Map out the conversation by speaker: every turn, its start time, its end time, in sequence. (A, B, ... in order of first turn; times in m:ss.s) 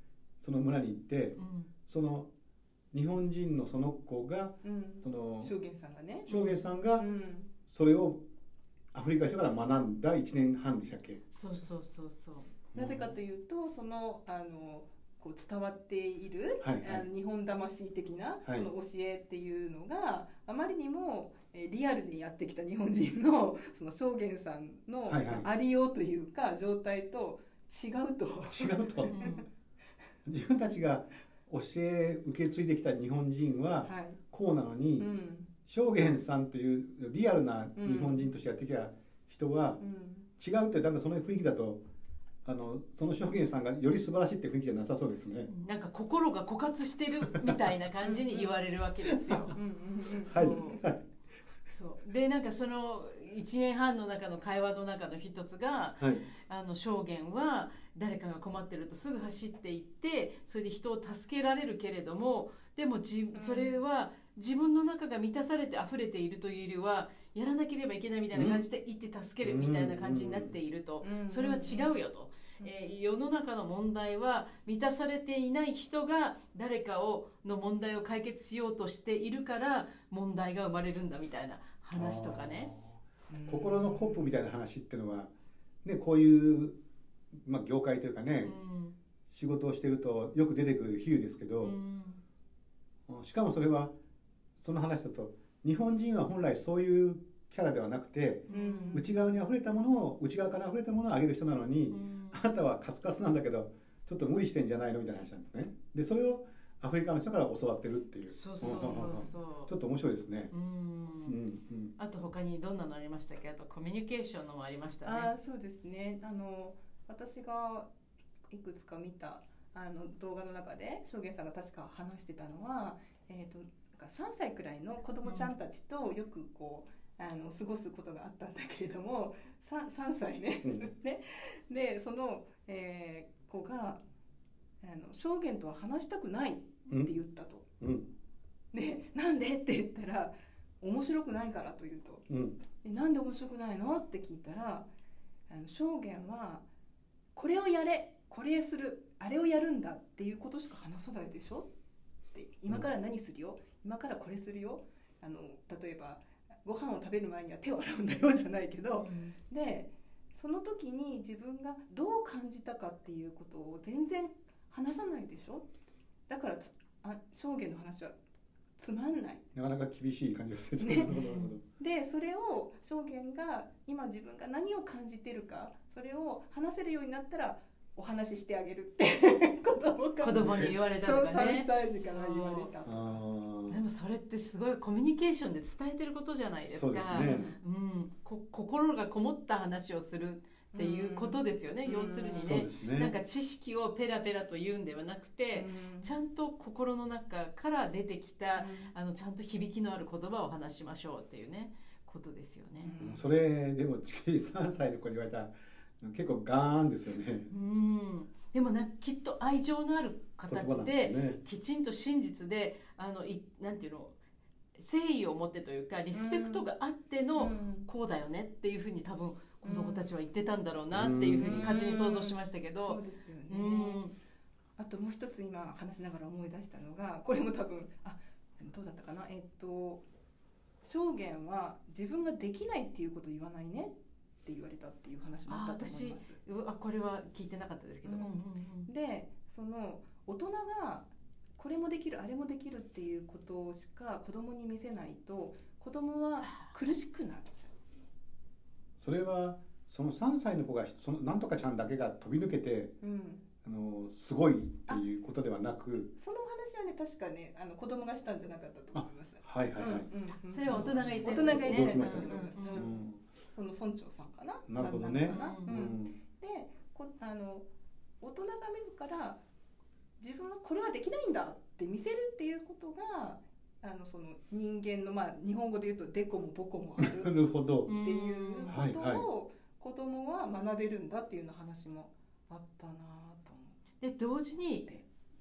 0:00.4-0:02.3 A
0:01.4-0:01.7 B
0:02.9-0:05.5 A
0:04.6-0:06.3 C
0:06.3-0:07.0 A
0:06.3-0:06.6 B
0:06.9-0:07.5 C
0:07.7-0:08.2 A
0:08.9-0:11.2 A
0:11.3-0:12.5 B
0:12.7-0:13.1 A
0:12.7-0:29.4 C
0:16.6-0:17.1 A
0:25.1-0:25.5 A
0:28.5-0:29.4 A
0:29.1-0:29.5 B
0:30.3-0:35.1 A
0:33.8-0:34.2 C
0:35.0-0:35.5 C
0:35.7-0:39.8 A
0:37.8-0:38.3 C
0:39.8-0:40.3 C
0:40.4-0:41.8 A
0:42.4-0:45.5 A
0:45.5-0:49.6 B
0:48.0-0:48.6 C
0:49.5-0:50.8 C
0:50.2-0:51.0 A
0:50.3-0:50.8 B
0:51.7-1:22.7 B
0:56.0-0:56.3 A
1:03.4-1:03.8 C
1:08.3-1:08.6 A
1:09.4-1:10.6 A
1:11.0-1:12.0 C
1:21.9-1:25.3 A
1:23.3-1:24.3 C
1:25.8-1:26.8 A
1:27.4-1:28.6 A
1:28.4-1:29.0 B
1:29.3-1:31.8 A
1:31.6-1:32.2 B
1:33.1-1:33.9 A
1:34.6-1:50.5 A
1:38.5-1:39.1 B
1:38.5-1:39.1 C
1:41.9-1:42.4 B
1:48.3-1:49.7 B
1:48.6-1:49.2 C
1:50.5-1:51.4 B
1:51.3-1:52.0 A
1:52.0-1:55.3 B
1:55.0-1:57.9 C
1:58.5-2:14.0 C
2:05.2-2:05.5 B
2:10.6-2:10.9 A
2:14.8-2:17.6 C
2:17.8-2:18.1 A
2:18.7-2:22.2 C
2:22.3-2:22.6 A
2:22.8-2:24.9 C
2:25.5-2:26.6 C
2:27.4-2:31.7 C
2:32.3-2:45.7 C
2:39.0-2:39.4 B
2:46.3-2:48.2 C
2:48.8-2:49.4 C
2:49.6-2:51.6 A
2:50.8-2:51.2 C
2:51.1-2:51.5 B
2:51.7-3:03.2 C
3:00.2-3:02.7 B
3:00.4-3:00.7 A
3:02.8-3:03.8 A
3:03.7-3:22.9 B
3:06.7-3:07.4 A
3:07.2-3:07.6 C
3:10.7-3:12.5 C
3:12.3-3:13.1 A
3:15.5-3:16.1 C
3:18.6-3:18.9 C
3:22.8-3:23.2 C
3:23.0-3:27.5 A
3:27.5-3:34.2 B
3:30.5-3:31.4 A
3:34.8-3:44.1 B
3:36.1-3:36.7 C
3:37.4-3:37.9 C
3:39.6-3:40.1 C
3:40.9-3:41.8 A
3:41.4-3:44.0 C
3:44.8-3:50.0 C
3:50.8-3:53.9 C
3:54.4-3:56.4 C
3:55.5-3:58.9 B
3:58.1-4:07.7 C
4:06.4-4:06.7 B
4:09.0-4:13.0 A
4:13.0-4:13.4 C
4:13.6-4:16.1 A
4:16.2-4:27.7 C
4:18.9-4:20.1 A
4:20.5-4:22.9 B
4:20.7-4:23.2 A
4:24.7-4:26.2 A
4:25.3-4:25.9 B
4:28.2-4:29.4 C
4:30.2-4:43.7 C
4:37.0-4:38.0 A
4:37.9-4:38.8 B
4:38.7-4:39.3 A
4:44.0-4:44.9 B